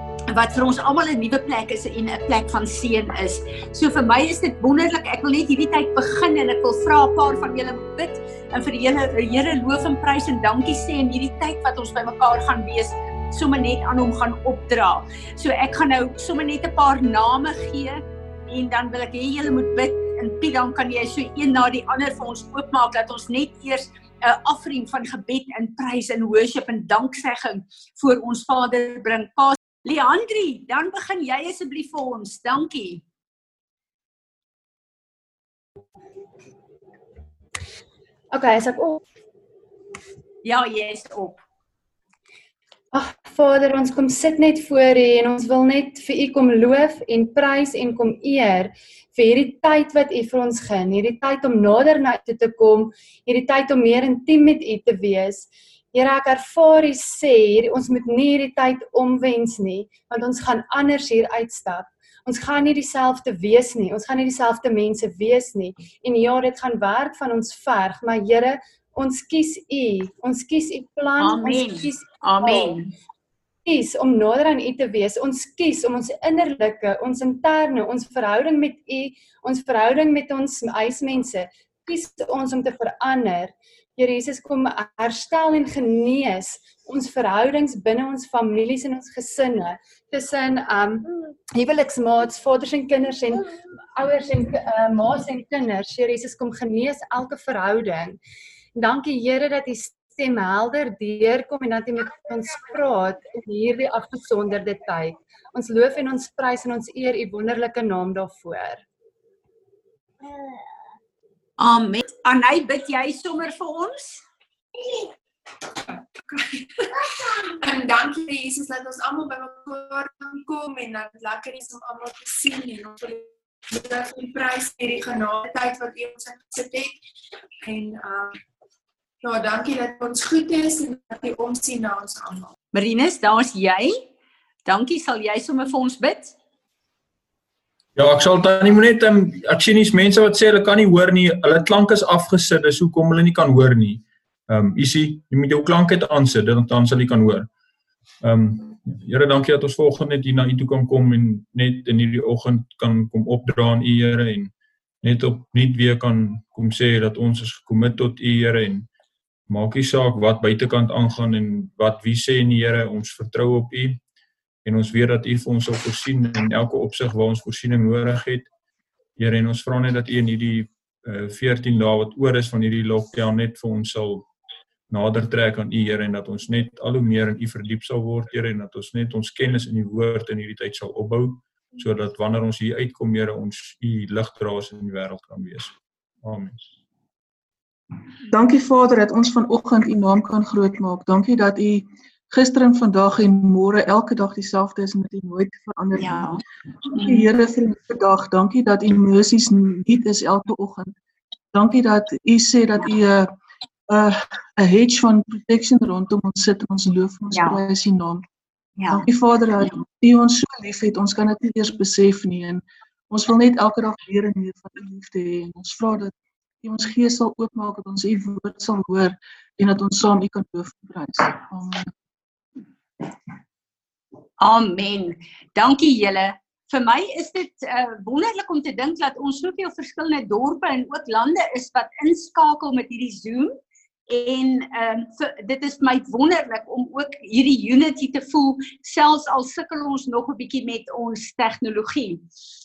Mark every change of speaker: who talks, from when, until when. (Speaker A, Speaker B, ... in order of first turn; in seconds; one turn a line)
Speaker A: 0.3-33.0
Speaker B: 38.3-39.0
Speaker A: 40.4-41.4
Speaker B: 42.9-72.7
Speaker A: 71.2-72.9
Speaker B: 73.7-98.2
Speaker B: 98.8-108.8
Speaker A: 111.6-114.2
Speaker C: 116.2-116.8
Speaker C: 117.4-127.0
Speaker C: 127.6-128.4
Speaker C: 129.2-132.5
Speaker A: 132.7-133.9
Speaker A: 134.7-136.3
Speaker D: 137.9-147.5
Speaker D: 148.2-158.9
Speaker D: 159.5-164.0
Speaker D: 164.6-168.5
Speaker D: 169.2-174.3
Speaker D: 174.9-186.6
Speaker E: 188.3-196.3
Speaker A: 195.9-196.4
Speaker E: 196.9-200.9
Speaker E: 201.5-203.3
Speaker E: 203.9-208.2
Speaker A: 207.3-207.6
Speaker A: 208.8-209.0
Speaker E: 208.9-221.9
Speaker A: 224.4-233.5
Speaker A: 234.1-242.2